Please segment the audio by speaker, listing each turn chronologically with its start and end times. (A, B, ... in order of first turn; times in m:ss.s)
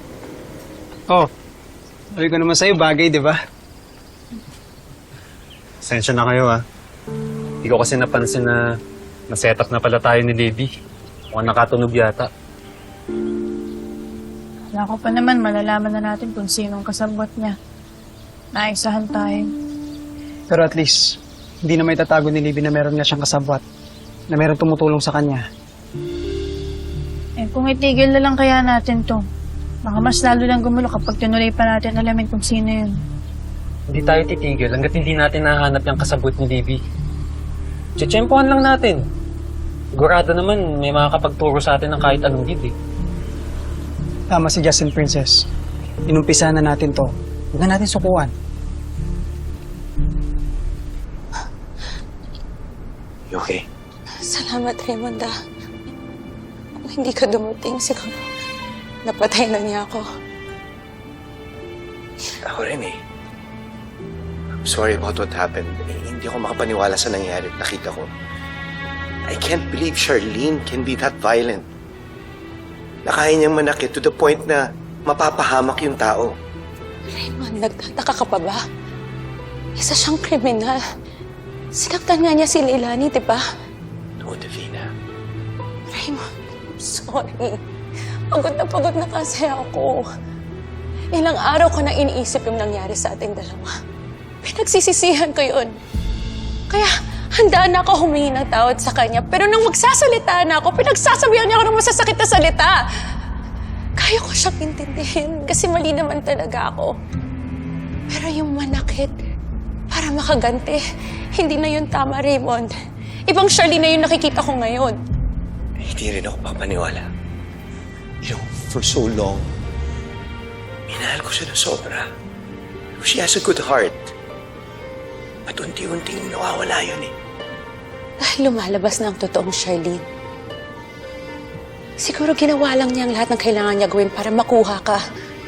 0:02.1-0:03.4 A
0:05.8-0:06.6 B
0:07.6-0:08.6 B
0:09.3-0:10.7 B
0:11.3-0:12.3 B
0:14.7-0:17.6 C
0:18.5-0:19.5 C
0:20.5-0:23.6 A
0:24.3-0:25.4 A
0:27.4-0:29.2 C
0:29.8-0:32.9 C
0:33.9-0:36.8 B
0:38.0-0:39.0 B
0:39.9-0:42.7 B
0:44.3-0:45.4 A
0:46.1-0:48.3 A
0:53.3-0:53.6 D
0:54.2-0:55.3 E
0:56.8-0:58.2 E
0:59.0-1:00.0 E
1:02.4-1:03.0 D
1:04.6-1:08.1 D
1:09.2-1:11.6 D
1:13.0-1:16.3 D
1:17.1-1:18.6 E
1:19.8-1:20.8 E
1:21.7-1:23.4 E
1:24.2-1:24.9 D
1:25.9-1:27.6 E
1:28.3-1:30.0 E
1:31.1-1:33.7 E
1:34.4-1:35.8 E
1:36.7-1:42.8 E
1:44.0-1:46.9 E
1:48.1-1:49.1 E
1:49.9-1:50.8 E
1:51.4-1:52.7 E
1:53.3-1:55.0 E
1:55.8-1:57.1 D
1:58.2-1:59.5 D
2:00.9-2:02.0 D
2:03.0-2:04.1 D
2:05.4-2:07.1 D
2:08.2-2:10.0 E
2:12.0-2:15.0 E